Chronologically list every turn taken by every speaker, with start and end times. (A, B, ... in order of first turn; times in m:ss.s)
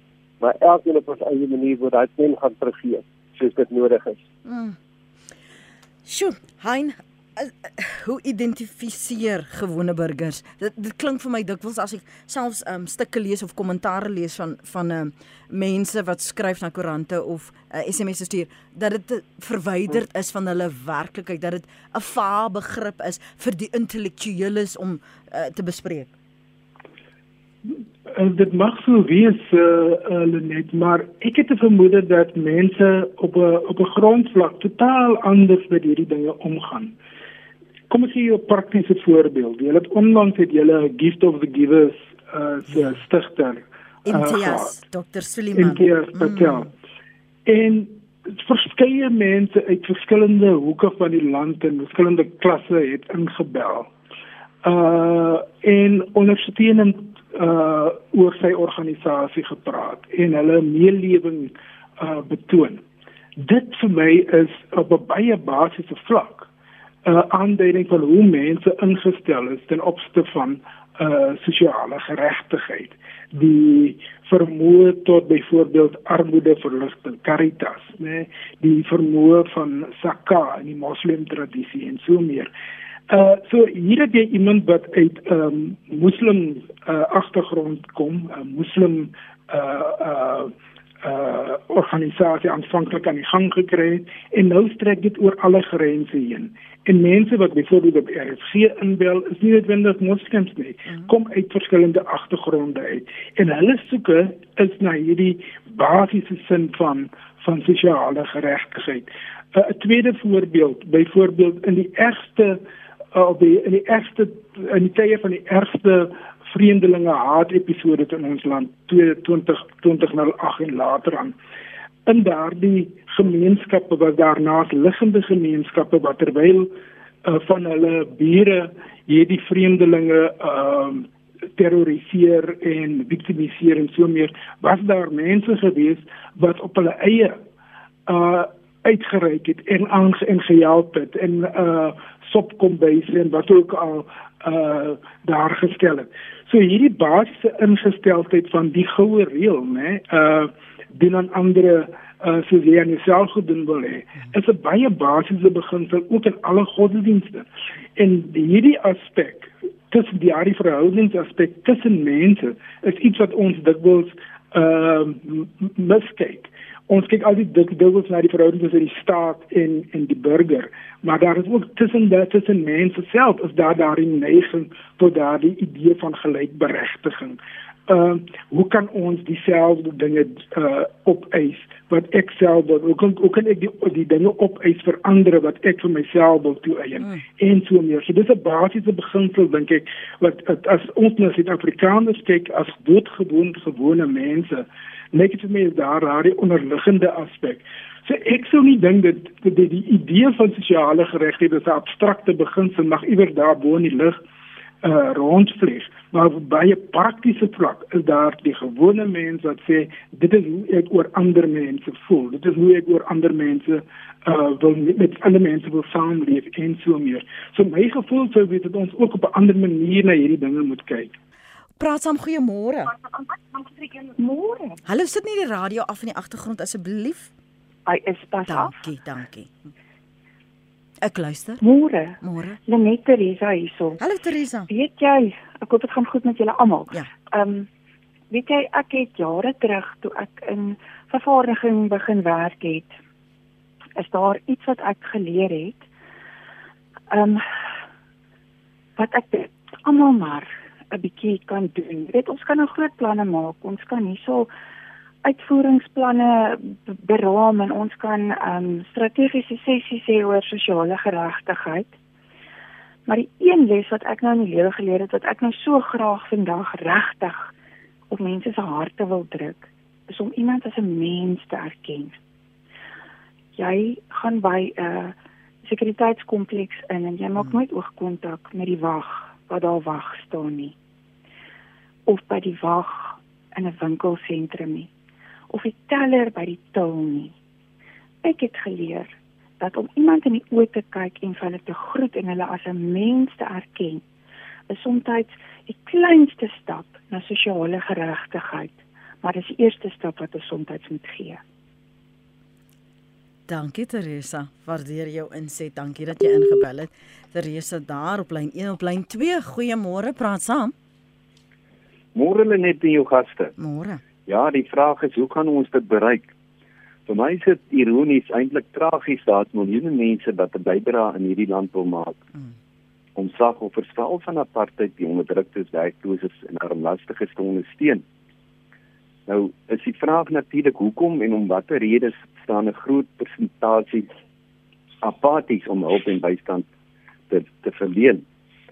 0:00.4-0:04.2 A
0:04.4-0:04.8 B
0:06.0-0:26.1 B
0:28.1-0:37.0 C
0:37.9-0:44.8 C
0:44.0-0:46.3 B
0:45.5-0:46.7 C
0:47.5-0:53.9 C
0:54.6-1:02.8 C
1:03.4-1:06.5 C
1:07.0-1:22.5 C
1:23.1-1:52.6 C
1:53.1-2:01.4 C
2:02.0-2:17.4 C
2:18.1-3:24.2 C
3:24.8-3:41.1 C
3:41.8-3:42.9 B
3:43.5-3:44.8 D
3:44.9-3:47.3 B
3:47.9-3:48.7 D
3:48.5-3:49.5 B
3:51.0-3:51.6 B
3:51.6-3:54.0 D
3:52.2-3:52.6 B
3:54.0-3:54.7 B
3:54.7-3:57.7 D
3:58.3-4:03.0 D
4:04.0-4:05.9 D
4:07.1-4:07.4 D
4:09.0-4:14.5 D
4:15.2-4:21.9 D
4:23.0-4:27.5 D
4:28.1-4:32.2 D
4:33.6-4:40.8 D
4:42.0-4:44.9 D
4:45.5-4:47.4 D
4:48.2-4:54.0 D
4:54.7-5:01.4 D
5:03.5-5:10.7 B
5:12.1-5:13.5 E
5:13.6-5:14.0 B
5:14.2-5:16.3 E
5:17.1-5:22.2 E
5:23.2-5:28.0 E
5:29.3-5:34.1 E
5:35.0-5:36.7 E
5:37.3-5:38.2 E